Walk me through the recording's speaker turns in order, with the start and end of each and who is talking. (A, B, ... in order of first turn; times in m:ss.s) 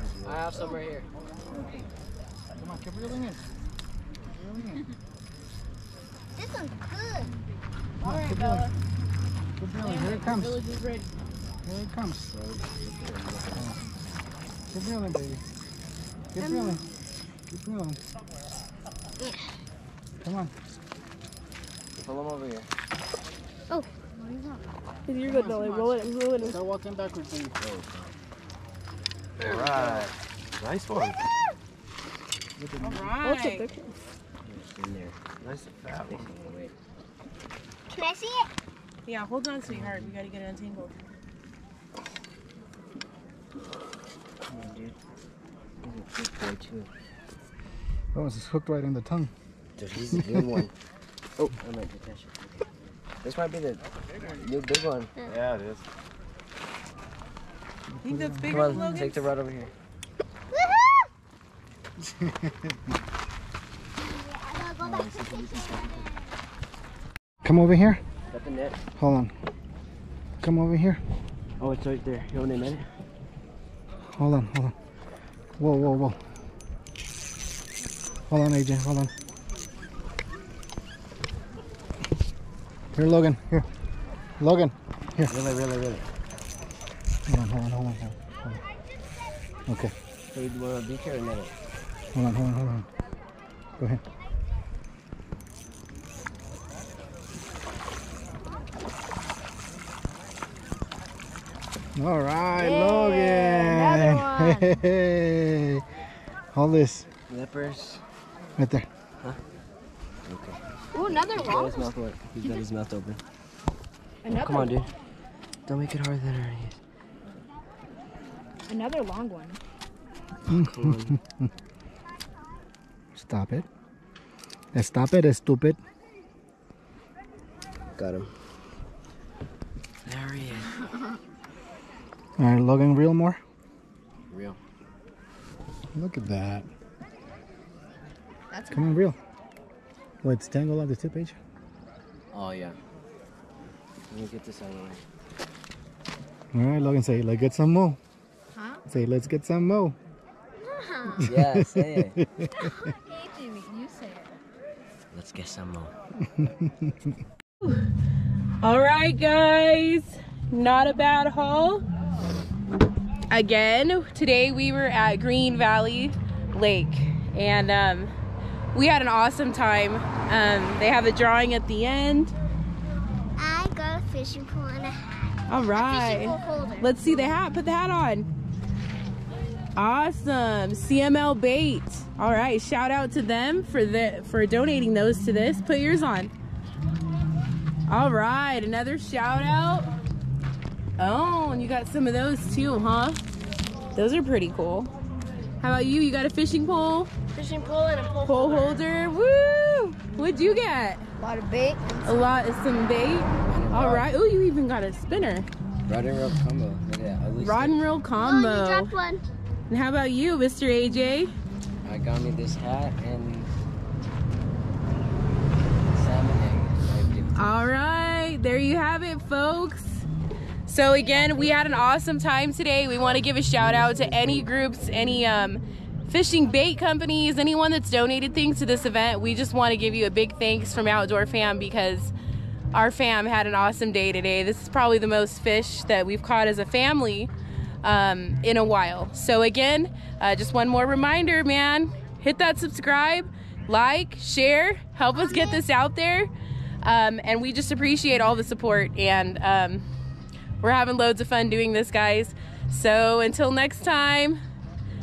0:00.2-0:01.1 A
0:02.6-0:03.4 B
0:04.3-0:04.8 B
0:06.3-0:07.3 C
0:08.0-0:08.7 B
0:08.0-0:08.7 D
0:09.6-0:10.6 B
0:09.8-0:11.1 D
0:11.6-0:12.3 B
0:12.3-0:13.8 A
0:13.5-0:13.8 B
0:14.7-0:15.4 B
0:16.3-0:16.8 B
0:16.4-0:16.8 C
0:17.5-0:18.0 B
0:19.2-0:19.5 C
0:20.2-0:20.5 B
0:22.0-0:22.7 A
0:24.1-0:26.2 D
0:25.0-0:26.6 E
0:26.4-0:27.5 B
0:27.6-0:28.1 A
0:29.4-0:30.1 A
0:30.7-0:31.0 A
0:32.6-0:33.1 B
0:32.8-0:33.7 D
0:33.2-0:33.9 E
0:34.4-0:35.4 A
0:36.0-0:36.7 A
0:37.9-0:38.5 C
0:39.0-0:41.0 D
0:39.7-0:40.1 A
0:44.5-0:44.9 A
0:45.8-0:46.9 A
0:48.1-0:49.3 B
0:49.8-0:50.7 A
0:51.4-0:52.6 A
0:53.2-0:55.2 A
0:57.9-0:58.8 B
0:58.0-0:59.3 D
0:58.5-0:59.7 A
1:00.5-1:01.1 C
1:02.0-1:02.8 B
1:04.0-1:06.3 C
1:07.4-1:08.0 B
1:08.3-1:08.8 A
1:09.0-1:09.3 B
1:10.4-1:11.0 B
1:11.6-1:12.8 A
1:14.1-1:14.7 B
1:15.6-1:16.2 B
1:18.3-1:19.1 B
1:22.9-1:23.7 B
1:24.4-1:25.3 B
1:25.3-1:26.1 A
1:27.3-1:28.6 B
1:29.7-1:29.9 B
1:30.3-1:31.5 A
1:32.1-1:32.9 B
1:41.9-1:45.8 B
1:42.6-1:44.7 E
1:46.5-1:47.1 B
1:47.3-1:48.0 A
1:48.6-1:48.9 B
1:50.2-1:53.2 A
1:50.9-1:51.9 E
1:54.2-1:54.8 E
1:54.3-1:54.9 A
1:55.7-1:56.8 A
1:58.7-1:59.6 E
2:00.5-2:01.2 A
2:00.5-2:01.5 B
2:03.1-2:03.6 B
2:04.7-2:05.8 B
2:08.0-2:08.3 A
2:10.0-2:10.9 A
2:12.4-2:13.4 B
2:14.3-2:14.6 A
2:15.9-2:16.7 B
2:18.5-2:18.8 E
2:18.7-2:19.2 B
2:20.2-2:21.4 B
2:22.3-2:22.8 A
2:24.1-2:25.0 A
2:26.5-2:28.0 B
2:28.9-2:30.0 B
2:30.7-2:31.2 C
2:31.2-2:32.7 B
2:31.2-2:32.2 A
2:33.2-2:34.3 E
2:35.1-2:35.9 A
2:36.3-2:37.1 B
2:38.6-2:41.8 D
2:43.3-2:48.1 D
2:48.7-2:52.3 D
2:53.4-2:56.9 C
2:55.5-2:58.3 D
2:59.8-3:06.3 D
3:07.9-3:09.9 D
3:11.0-3:13.2 D
3:13.9-3:14.9 D
3:15.6-3:17.1 D
3:17.3-3:18.8 E
3:18.2-3:21.1 D
3:21.2-3:22.0 E
3:22.0-3:25.5 D
3:23.5-3:24.1 A
3:25.9-3:27.8 A
3:27.4-3:28.9 D
3:28.2-3:29.2 C
3:29.7-3:31.3 D
3:31.8-3:33.5 A
3:35.9-3:37.5 A
3:37.3-3:40.0 D
3:40.7-3:52.1 D
3:43.9-3:44.3 A
3:52.7-3:57.3 D
3:57.8-4:06.3 D
4:05.2-4:05.6 C
4:06.8-4:09.9 D
4:10.6-4:14.4 D